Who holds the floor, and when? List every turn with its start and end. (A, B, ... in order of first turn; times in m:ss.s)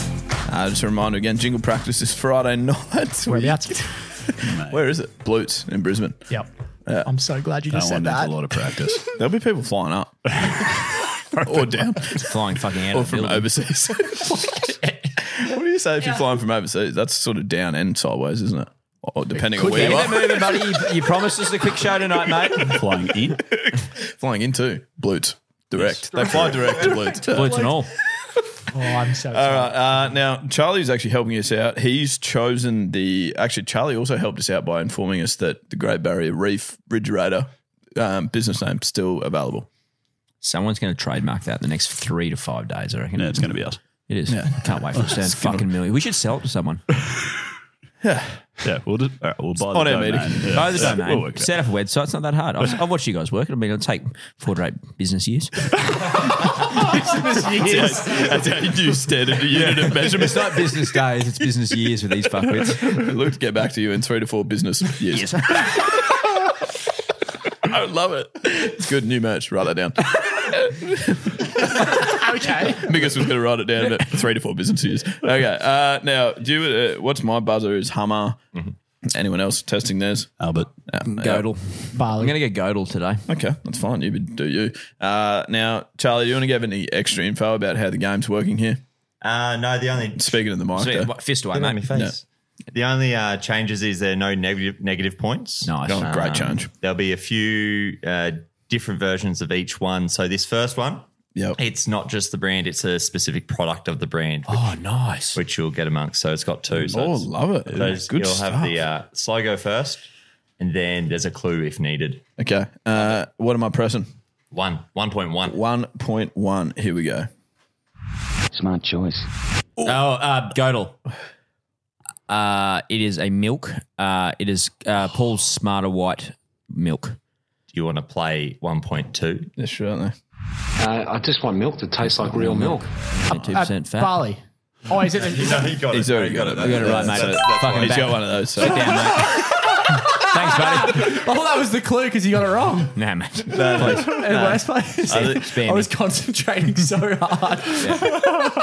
0:00.4-0:06.3 A
0:03.3-0:03.9 B
0:04.4-0:04.8 C
0:07.0-0:08.5 B
0:07.7-0:09.0 C
0:09.1-0:10.4 A
0:11.4-0:12.3 A
0:12.1-0:13.5 D
0:12.9-0:14.7 A
0:15.3-0:20.6 A
0:19.4-0:22.8 D
0:22.6-0:23.4 C
0:23.5-0:27.7 A
0:26.1-0:27.8 B
0:27.3-0:27.9 D
0:28.7-0:30.1 B
0:29.3-0:39.7 A
0:40.4-0:43.5 D
0:43.2-0:43.8 C
0:44.1-0:46.8 D
0:44.3-0:44.6 A
0:45.0-0:45.6 C
0:48.0-0:48.4 A
0:48.6-0:51.5 C
0:49.6-0:51.0 A
0:50.5-0:55.7 D
0:56.8-0:58.6 B
0:57.5-1:00.8 A
0:57.6-0:58.0 D
0:59.5-1:03.0 D
1:02.8-1:06.0 A
1:05.1-1:05.8 D
1:07.6-1:18.4 A
1:12.1-1:12.9 B
1:19.1-1:20.3 A
1:20.4-1:20.7 C
1:20.9-1:21.4 A
1:21.0-1:23.2 D
1:21.9-1:22.4 B
1:23.3-1:28.8 A
1:29.2-1:30.4 E
1:30.1-1:31.1 A
1:30.8-1:31.8 D
1:31.5-1:32.2 E
1:31.9-1:32.2 A
1:32.7-1:44.7 E
1:35.6-1:36.1 D
1:35.8-1:36.7 A
1:44.5-1:45.4 D
1:45.3-1:50.0 E
1:46.7-1:48.8 A
1:47.7-1:48.0 C
1:50.6-1:52.2 E
1:52.4-1:54.1 A
1:54.5-1:55.6 E
1:55.5-1:57.3 A
1:58.5-1:59.2 F
1:59.8-2:01.0 D
2:02.3-2:07.2 D
2:07.7-2:09.5 E
2:09.6-2:10.1 A
2:10.8-2:12.9 F
2:12.0-2:14.3 D
2:13.3-2:15.8 B
2:15.2-2:18.1 E
2:15.7-2:19.0 A
2:16.6-2:19.5 D
2:19.0-2:23.0 B
2:20.3-2:21.1 D
2:22.9-2:25.9 D
2:23.5-2:25.4 A
2:23.8-2:28.2 B